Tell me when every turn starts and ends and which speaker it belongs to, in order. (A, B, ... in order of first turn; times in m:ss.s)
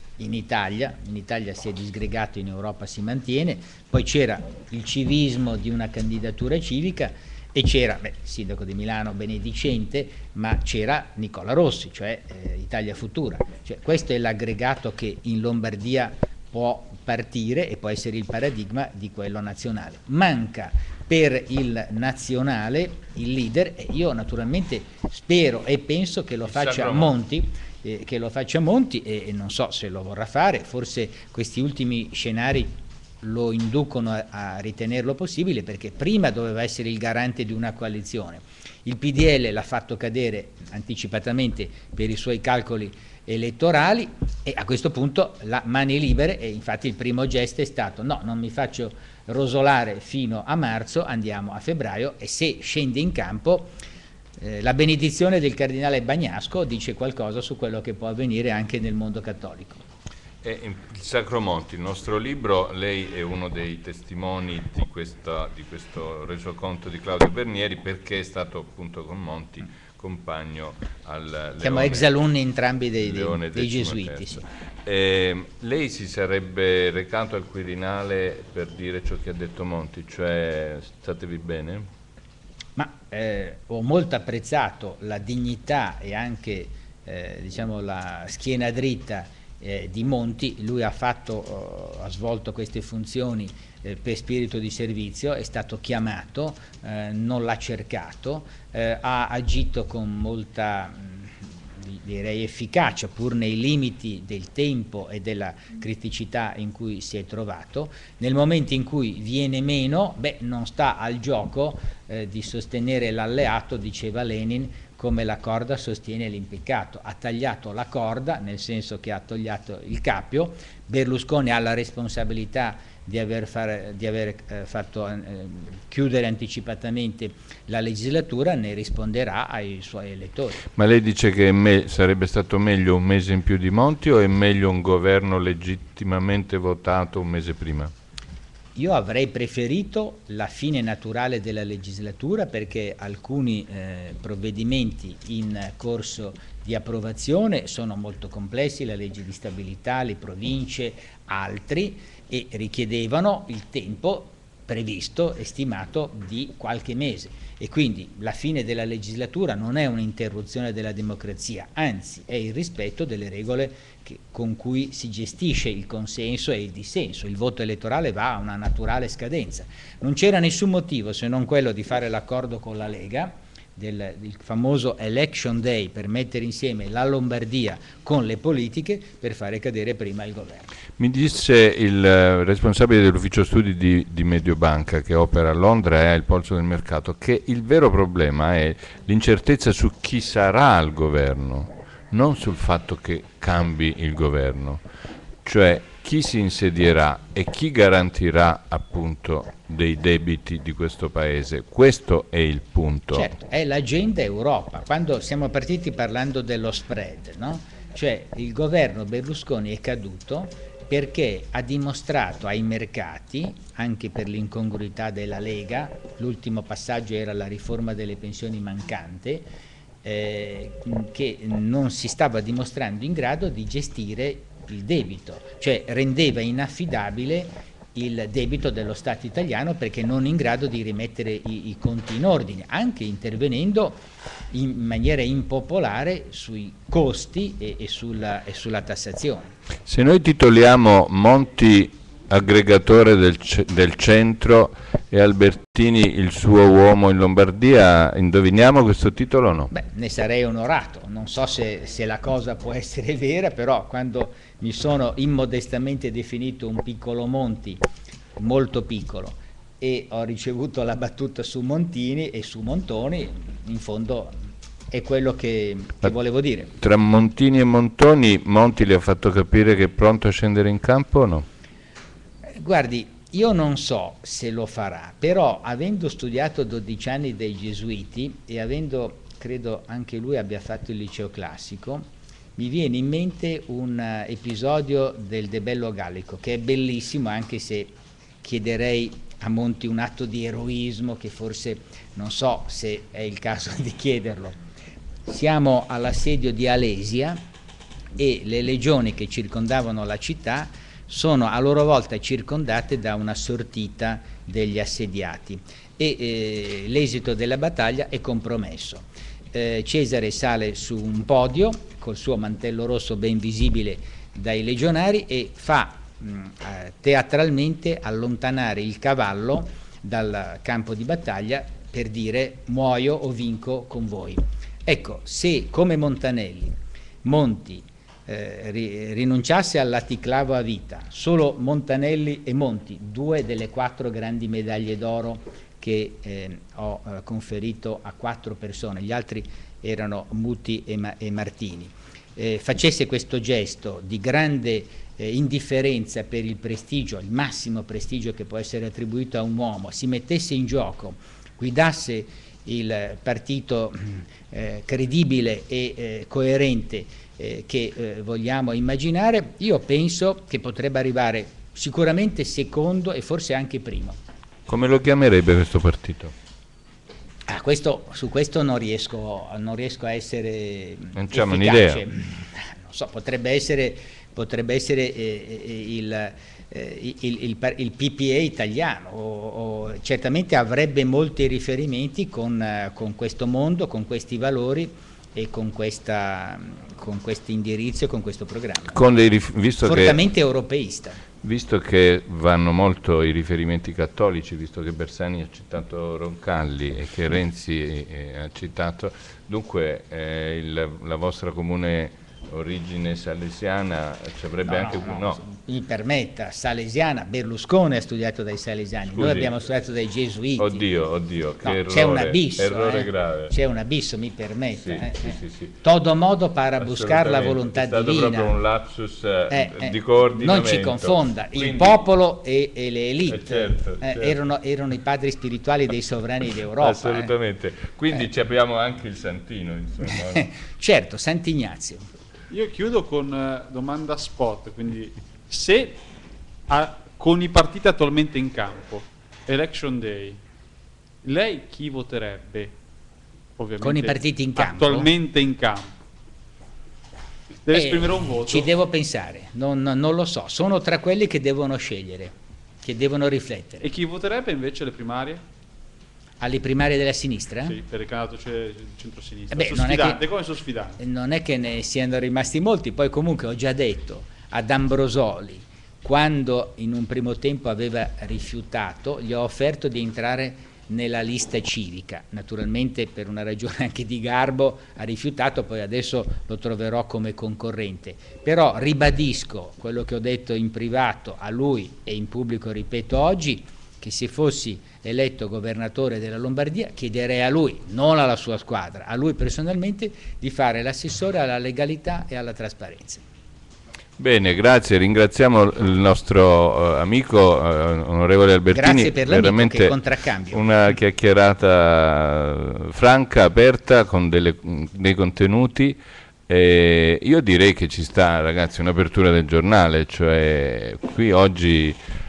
0:00.2-0:53.7 A
0:26.5-0:27.2 B
0:54.4-0:59.8 A
1:00.4-1:12.2 B
1:11.6-1:14.5 A
1:13.0-1:21.9 B
1:22.8-2:10.6 A
2:10.8-2:17.9 B
2:18.8-3:00.7 A
3:01.0-3:14.8 B
3:15.4-3:23.3 B
3:23.1-3:39.5 A
3:40.0-3:54.0 A
3:54.5-3:59.5 A
3:59.9-4:09.7 B
4:09.7-4:17.8 A
4:18.4-4:24.4 A
4:24.9-4:26.7 A
4:26.8-4:31.5 B
4:32.5-4:42.0 A
4:42.6-4:54.6 A
4:55.3-4:57.4 A
4:58.2-6:04.2 A
6:04.7-6:06.3 B
6:07.5-6:29.0 A
6:11.2-6:12.0 B
6:28.9-6:30.2 B
6:29.8-6:31.2 A
6:31.4-6:45.4 B
6:44.6-6:50.8 A
6:49.1-6:49.6 B
6:50.6-6:53.5 B
6:51.6-6:58.6 A
6:54.7-6:55.8 B
6:56.8-7:02.0 B
6:59.5-7:07.3 A
7:03.3-7:04.4 B
7:06.8-7:10.5 B
7:10.1-7:12.1 A
7:12.5-7:16.0 C
7:16.7-7:20.4 C
7:21.2-7:22.7 C
7:23.6-7:25.9 C
7:23.8-7:25.1 A
7:27.6-7:28.7 C
7:27.7-7:33.9 A
7:33.8-7:35.4 C
7:36.4-7:37.8 A
7:37.7-7:41.0 C
7:39.5-7:40.2 A
7:41.0-8:13.2 A
8:14.2-8:20.0 B
8:18.7-8:20.6 A
8:20.5-8:32.0 B